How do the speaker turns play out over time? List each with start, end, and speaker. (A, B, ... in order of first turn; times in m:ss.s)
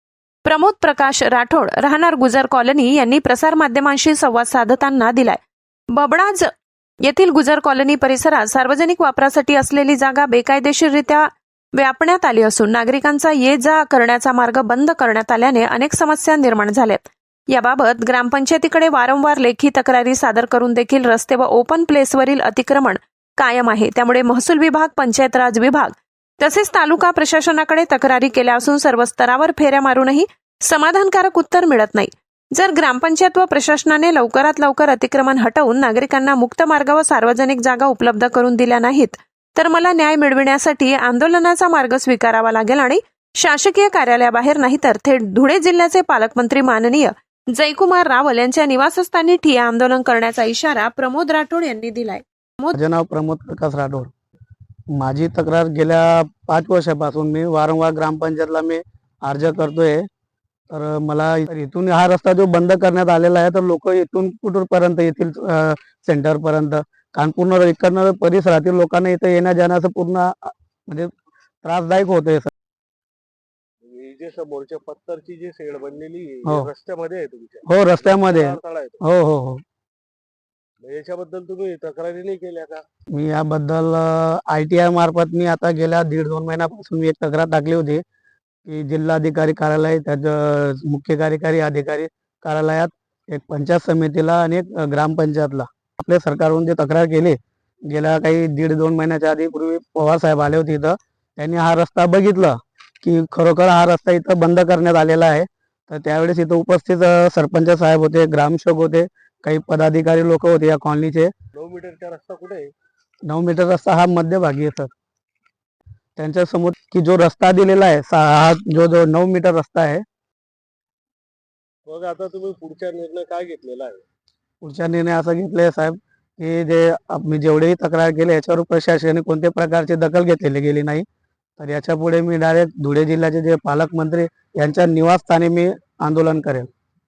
0:00.4-0:06.5 A
0:07.0-0:52.8 A
0:52.7-0:54.1 B
0:54.9-1:00.1 B
1:00.7-1:12.5 B
1:13.8-1:19.0 C
1:17.6-1:19.6 B
1:20.8-1:22.8 C
1:23.1-1:28.0 B
1:28.6-1:51.3 B
1:51.5-1:52.7 C
1:53.2-1:54.9 B
1:56.2-2:00.0 B
2:01.9-2:04.0 C
2:04.6-2:11.0 B
2:11.6-2:16.7 B